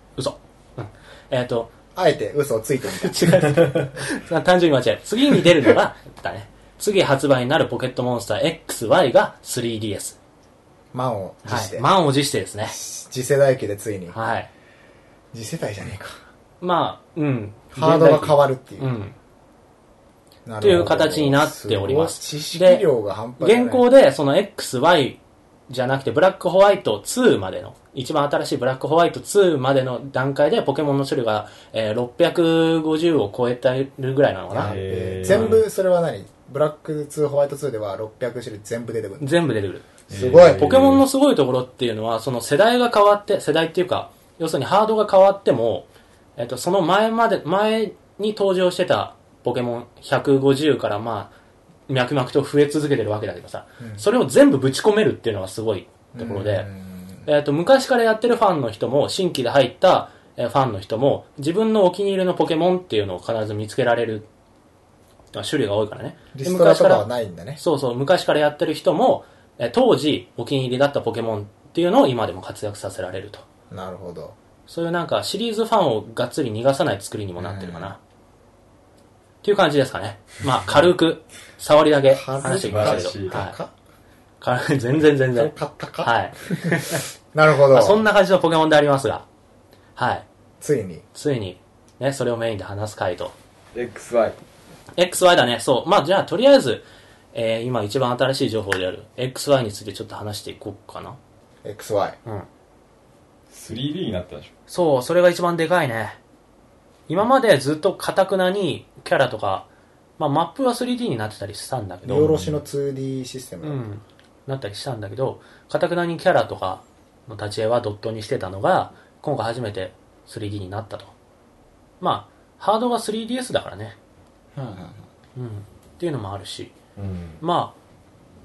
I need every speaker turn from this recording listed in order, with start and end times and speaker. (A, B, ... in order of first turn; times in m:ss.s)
0:00.2-0:01.7 A
0:01.9-0:03.2 B
0:03.0-0:10.2 A
0:03.5-0:03.9 C
0:10.9-0:11.9 B
0:11.5-0:12.7 A
0:12.6-0:14.2 B
0:14.1-0:14.5 A
0:15.3-0:16.2 B
0:16.6-0:19.1 A
0:17.7-0:18.9 B
0:20.4-0:23.8 B
0:20.6-0:22.8 A
0:23.4-0:35.6 A
0:34.5-0:39.3 B
0:34.6-0:35.6 C
0:39.2-0:51.3 A
0:40.1-0:40.8 B
0:40.1-0:41.0 C
0:51.9-0:56.7 A
0:56.1-0:57.3 B
0:57.2-1:04.3 A
1:05.3-1:07.0 A
1:06.3-1:07.6 B
1:07.6-1:13.4 A
1:13.7-1:14.4 B
1:14.7-1:18.0 A
1:17.4-1:17.9 B
1:19.4-1:23.6 A
1:22.1-1:23.7 B
1:22.5-1:23.4 C
1:24.4-1:27.0 A
1:25.3-1:28.0 B
1:27.7-1:29.2 A
1:30.0-1:30.2 A
1:30.6-1:31.0 B
1:31.1-1:33.3 A
1:33.7-1:34.4 C
1:35.0-1:41.2 A
1:41.6-1:42.2 B
1:43.5-1:44.5 C
1:44.7-1:46.2 A
1:47.1-1:49.7 A
1:50.2-1:52.5 A
1:52.0-1:53.8 B
1:53.6-2:01.1 A
2:02.0-2:04.0 A
2:04.5-2:05.0 B
2:05.4-2:06.7 A
2:07.0-2:07.4 C
2:07.4-2:07.7 A